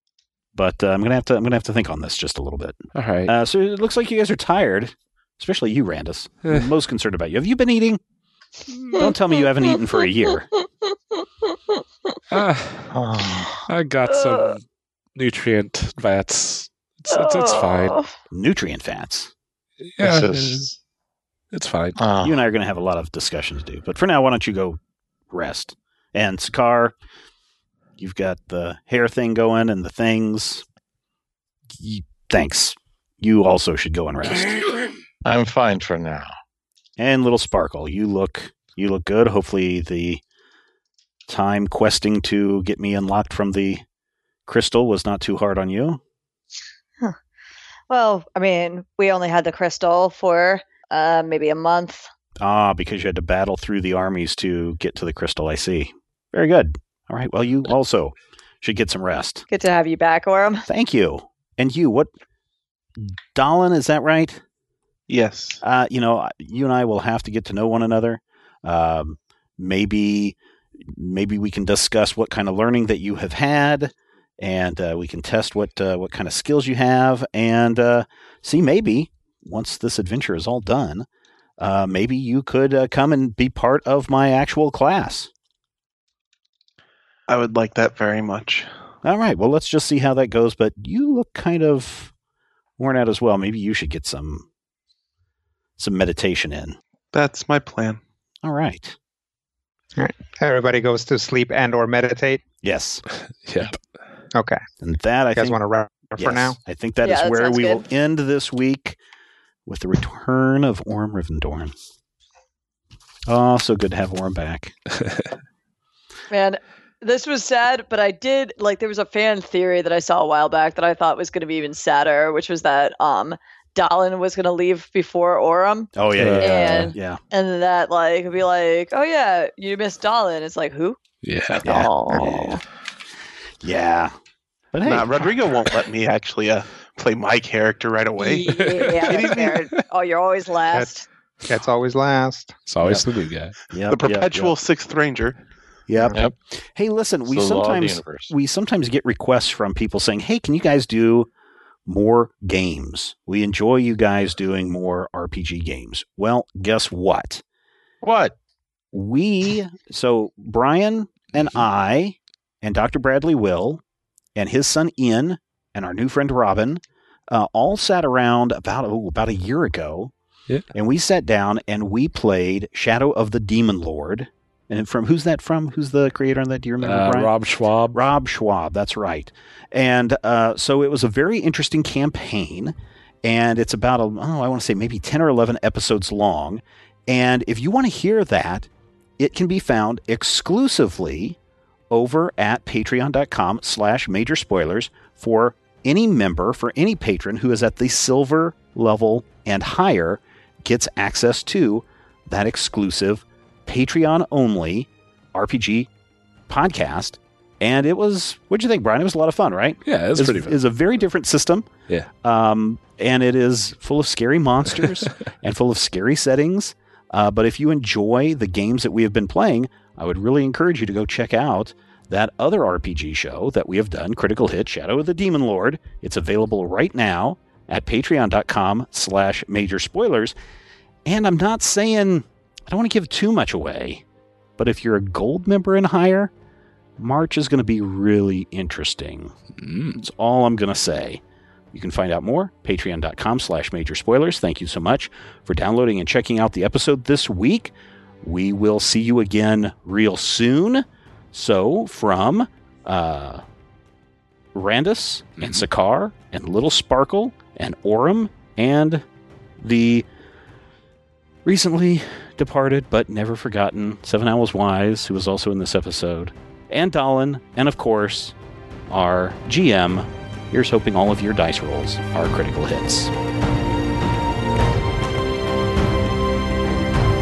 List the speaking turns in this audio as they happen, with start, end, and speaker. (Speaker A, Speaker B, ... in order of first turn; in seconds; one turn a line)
Speaker A: 0.5-8.0
Speaker B: 2.9-3.3
Speaker B: 8.7-9.0
Speaker A: 8.9-10.5
Speaker C: 8.9-12.2
Speaker B: 12.3-12.9
Speaker D: 12.9-13.6
Speaker B: 13.7-14.6
Speaker C: 14.1-14.5
Speaker B: 15.1-18.0
Speaker C: 17.1-18.1
Speaker A: 18.3-19.3
Speaker B: 19.8-20.7
Speaker D: 20.0-20.7
Speaker B: 21.5-22.0
Speaker D: 21.9-22.4
Speaker A: 22.2-24.8
Speaker A: 25.3-26.9
Speaker A: 28.0-30.6
Speaker A: 31.8-34.6
Speaker D: 35.2-36.3
Speaker A: 37.0-40.2
Speaker A: 41.3-43.8
Speaker A: 44.5-46.0
Speaker C: 47.9-52.1
Speaker A: 52.4-59.5
Speaker C: 59.5-60.6
Speaker A: 60.7-62.1
Speaker A: 63.0-64.4
Speaker E: 65.1-65.6
Speaker A: 65.6-81.0
Speaker A: 81.6-85.3
Speaker E: 87.3-88.7
Speaker A: 89.0-92.1
Speaker A: 92.8-94.5
Speaker A: 95.8-96.8
Speaker E: 97.1-98.0
Speaker A: 98.4-99.0
Speaker F: 100.0-102.4
Speaker A: 102.6-103.0
Speaker B: 103.5-103.8
Speaker F: 104.3-104.6
Speaker A: 104.8-105.6
Speaker F: 105.4-106.6
Speaker A: 106.2-109.0
Speaker C: 107.0-107.8
Speaker A: 109.7-111.7
Speaker A: 113.2-114.7
Speaker C: 116.3-131.0
Speaker A: 125.9-127.2
Speaker B: 126.2-126.9
Speaker B: 131.2-131.9
Speaker C: 131.6-132.6
Speaker A: 131.6-132.6
Speaker A: 133.6-134.1
Speaker A: 134.7-135.3
Speaker E: 134.8-139.5
Speaker C: 138.2-141.1
Speaker B: 138.6-139.8
Speaker F: 141.4-142.6
Speaker B: 142.7-143.6
Speaker A: 143.7-144.5
Speaker E: 143.9-145.4
Speaker A: 145.9-151.3
Speaker D: 147.3-148.3
Speaker A: 151.9-157.4
Speaker D: 158.0-158.3
Speaker A: 158.9-163.8
Speaker A: 164.3-170.1
Speaker A: 170.7-177.3
Speaker B: 176.8-178.0
Speaker A: 177.9-191.4
Speaker A: 191.9-205.9
Speaker A: 206.5-211.7
Speaker B: 209.9-210.6
Speaker A: 212.2-230.3
Speaker A: 231.1-234.0
Speaker A: 234.6-236.3
Speaker A: 237.0-239.3
Speaker B: 239.6-240.0
Speaker A: 240.0-241.2
Speaker A: 241.7-253.4
Speaker A: 254.5-259.0
Speaker A: 259.6-260.1
Speaker A: 261.4-268.4
Speaker A: 268.9-273.1